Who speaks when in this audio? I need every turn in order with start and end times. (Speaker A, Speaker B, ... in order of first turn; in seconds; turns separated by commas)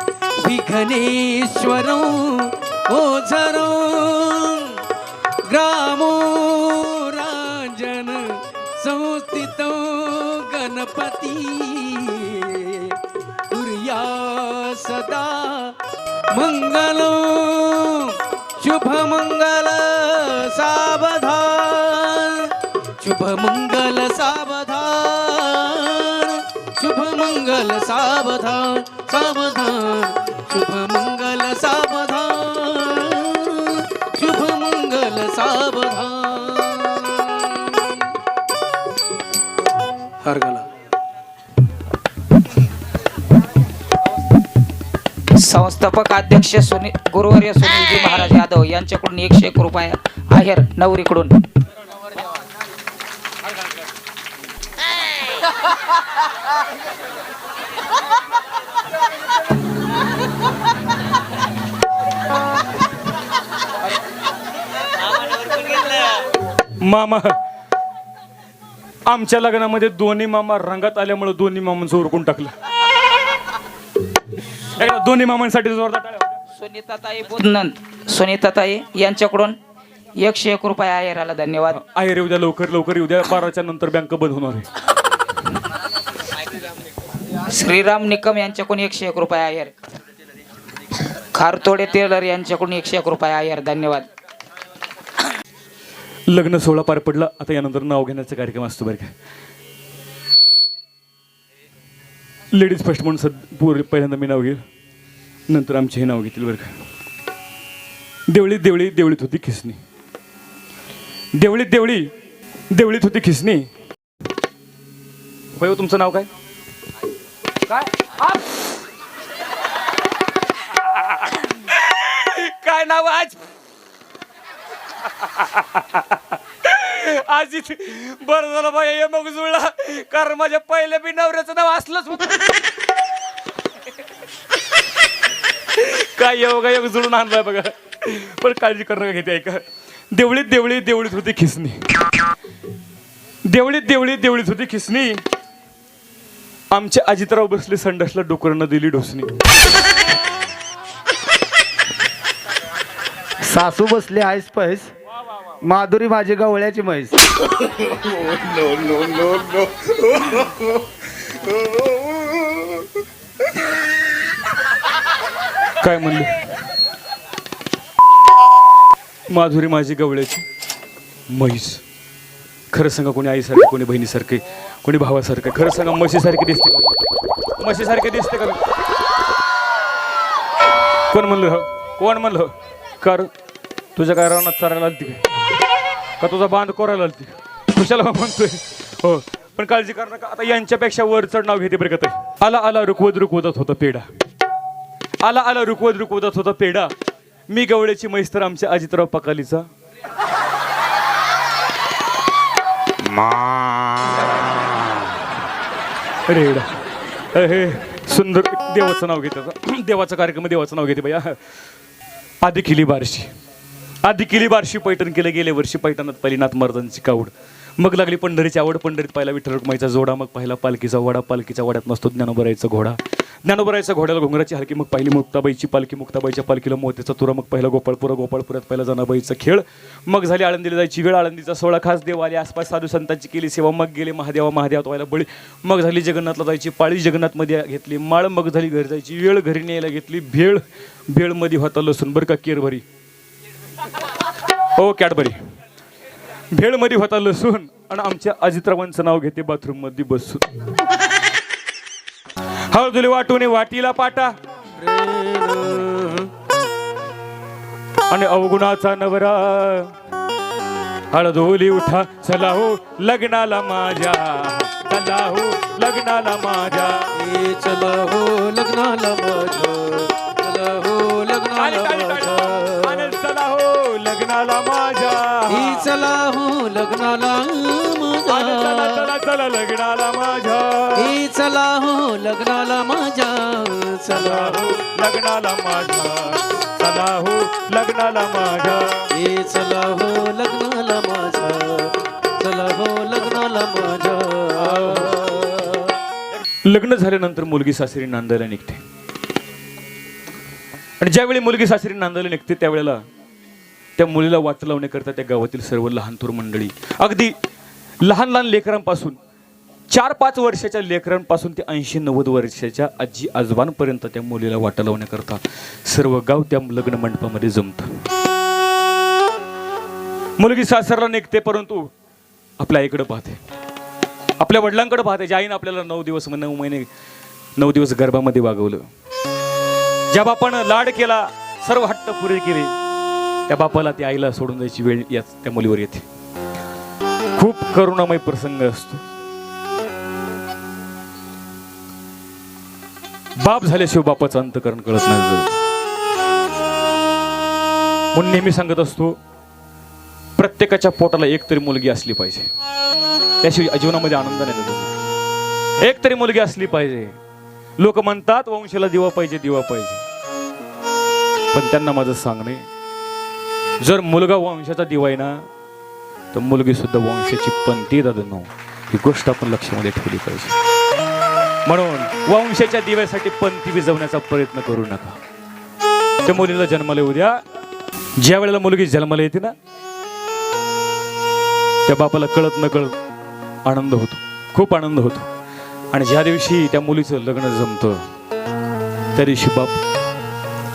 Speaker A: 0.4-4.8, Speaker A: 5.4-13.0, Speaker A: 13.5-15.8, Speaker A: 16.3-38.0, Speaker A: 40.2-40.6, Speaker B: 45.3-51.4, Speaker C: 66.8-67.3, Speaker C: 69.1-72.5, Speaker C: 74.8-76.3, Speaker B: 76.5-79.6, Speaker B: 80.2-81.8, Speaker C: 81.7-84.7, Speaker B: 87.4-89.7, Speaker B: 91.0-94.1, Speaker C: 96.3-99.1, Speaker C: 102.5-104.6, Speaker C: 105.5-106.7, Speaker C: 108.3-109.8, Speaker C: 111.3-112.1, Speaker C: 112.7-113.7, Speaker C: 115.5-116.3, Speaker C: 117.7-118.4, Speaker C: 121.1-123.4, Speaker C: 125.2-132.6, Speaker C: 135.7-139.6, Speaker C: 140.1-141.8, Speaker C: 143.5-145.2, Speaker C: 146.7-149.3, Speaker D: 153.4-154.9, Speaker D: 155.6-157.2, Speaker D: 158.4-159.6, Speaker C: 165.8-166.3, Speaker C: 169.3-170.4, Speaker C: 171.3-171.8, Speaker C: 172.7-177.0, Speaker C: 177.6-178.6, Speaker C: 181.1-183.3, Speaker C: 183.9-185.2, Speaker C: 186.2-194.1, Speaker C: 195.2-196.9, Speaker C: 197.5-199.7, Speaker D: 203.2-204.7, Speaker C: 206.3-206.7, Speaker C: 207.3-211.4, Speaker C: 212.4-213.3, Speaker C: 214.0-242.8, Speaker C: 244.8-245.4, Speaker C: 246.5-250.4, Speaker C: 252.7-254.3, Speaker A: 254.8-256.3, Speaker C: 258.1-259.9, Speaker C: 261.1-267.1, Speaker A: 267.1-273.1, Speaker C: 271.6-275.9, Speaker A: 275.5-279.1, Speaker C: 278.3-281.1, Speaker A: 280.9-284.7, Speaker C: 284.1-289.1, Speaker A: 289.1-295.9, Speaker C: 294.6-295.3, Speaker C: 296.3-298.8, Speaker C: 301.0-303.0, Speaker C: 304.0-307.3, Speaker C: 308.0-309.2, Speaker C: 309.9-317.9, Speaker C: 320.4-321.9, Speaker C: 322.6-323.4, Speaker C: 324.4-326.9, Speaker C: 327.6-328.9, Speaker C: 330.1-332.7, Speaker C: 333.5-336.0, Speaker C: 337.4-339.0, Speaker C: 343.4-345.5, Speaker C: 348.1-349.2, Speaker C: 350.4-352.5, Speaker C: 353.4-354.9, Speaker C: 355.8-357.2, Speaker C: 357.8-360.0, Speaker C: 361.5-362.6, Speaker C: 363.8-365.4, Speaker C: 366.3-370.6, Speaker C: 371.6-375.2, Speaker C: 376.2-377.4, Speaker C: 378.2-379.5, Speaker C: 381.9-382.9, Speaker C: 383.6-385.2, Speaker C: 385.9-388.0, Speaker C: 389.1-389.8